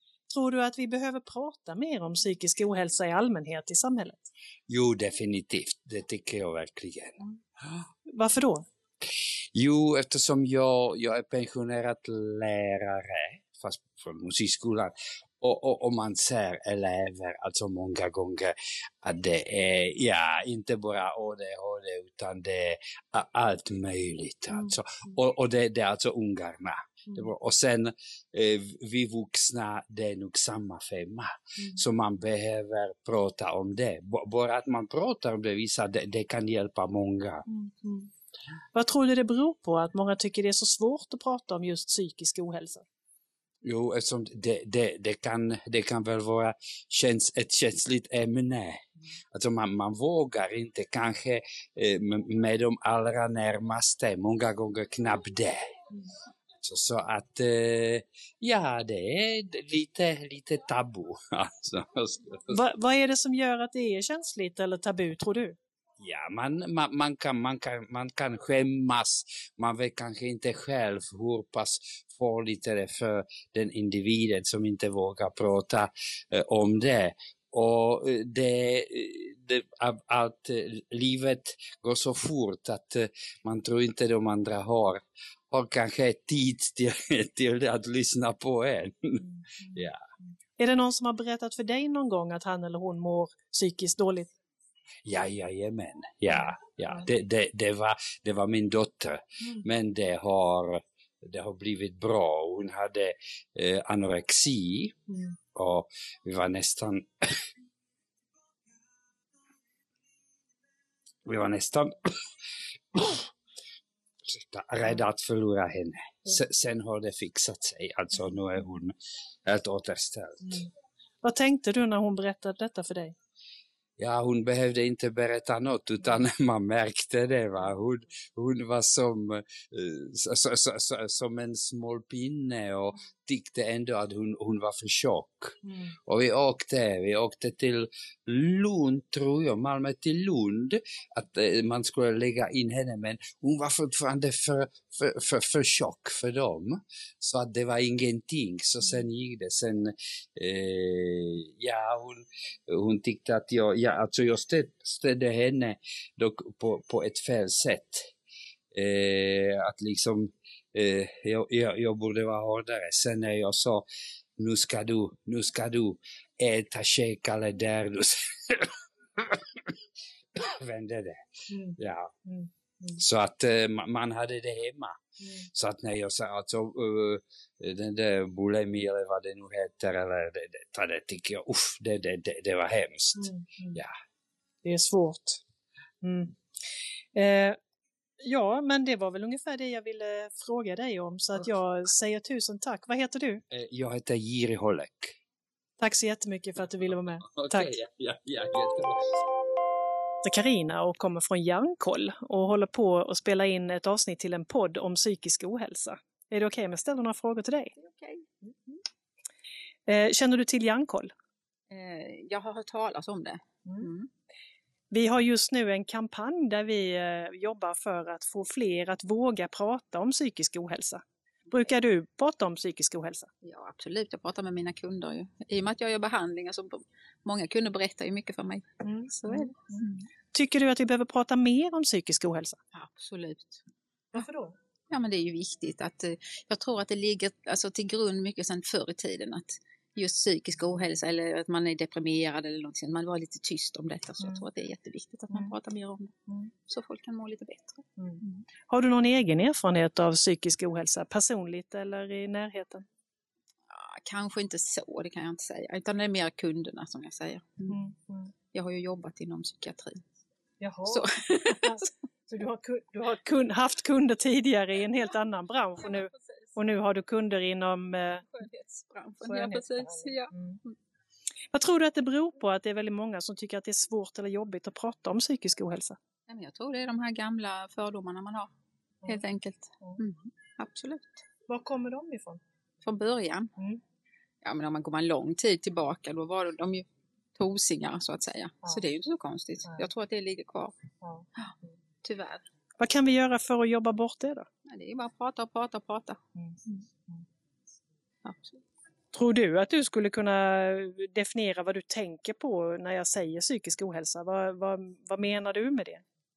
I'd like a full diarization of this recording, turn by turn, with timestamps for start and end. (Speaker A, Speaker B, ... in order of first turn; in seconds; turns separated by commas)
Speaker A: 0.3-4.3, Speaker B: 4.7-7.8, Speaker A: 8.1-8.7, Speaker B: 9.6-37.5, Speaker A: 37.5-38.1, Speaker A: 38.7-42.9, Speaker B: 43.7-55.6, Speaker B: 56.6-62.6, Speaker A: 62.5-65.6, Speaker B: 66.0-89.2, Speaker A: 89.2-94.3, Speaker B: 89.8-90.0, Speaker B: 95.1-105.0, Speaker A: 96.3-97.1, Speaker A: 105.1-105.3, Speaker B: 105.5-107.1, Speaker B: 111.3-112.0, Speaker B: 112.9-113.3, Speaker B: 114.3-118.9, Speaker B: 119.5-120.6, Speaker A: 120.4-120.7, Speaker A: 121.2-123.2, Speaker B: 124.0-158.0, Speaker A: 135.6-136.0, Speaker B: 158.8-163.8, Speaker B: 164.4-169.6, Speaker B: 170.4-171.2, Speaker A: 171.5-173.0, Speaker B: 171.8-172.1, Speaker B: 173.0-175.0, Speaker A: 175.2-175.5, Speaker B: 175.5-183.9, Speaker A: 183.2-183.8, Speaker A: 184.6-185.4, Speaker A: 186.0-186.3, Speaker A: 187.2-187.6, Speaker A: 188.2-193.4, Speaker B: 193.5-195.1, Speaker A: 195.8-197.8, Speaker B: 197.3-199.0, Speaker A: 200.2-207.7, Speaker C: 207.8-208.3, Speaker A: 209.9-211.1, Speaker C: 211.7-214.1, Speaker A: 214.9-223.3, Speaker C: 223.4-230.1, Speaker A: 228.8-232.6, Speaker C: 232.7-233.6, Speaker A: 234.1-234.6, Speaker C: 234.9-246.1, Speaker C: 246.7-248.4, Speaker A: 248.0-252.8, Speaker C: 253.7-257.8, Speaker A: 257.7-258.3, Speaker C: 258.5-260.0, Speaker A: 260.6-268.3, Speaker C: 260.9-261.9, Speaker C: 265.8-266.6, Speaker C: 268.2-270.8, Speaker A: 269.2-270.6, Speaker A: 271.5-276.0, Speaker C: 276.3-278.5, Speaker C: 279.1-281.2, Speaker A: 281.5-282.4, Speaker C: 282.8-283.5, Speaker C: 284.4-290.8, Speaker A: 291.0-291.3, Speaker C: 292.0-292.4, Speaker A: 292.8-294.5, Speaker C: 294.6-296.8, Speaker A: 296.4-297.2, Speaker C: 298.2-298.6, Speaker A: 299.1-306.0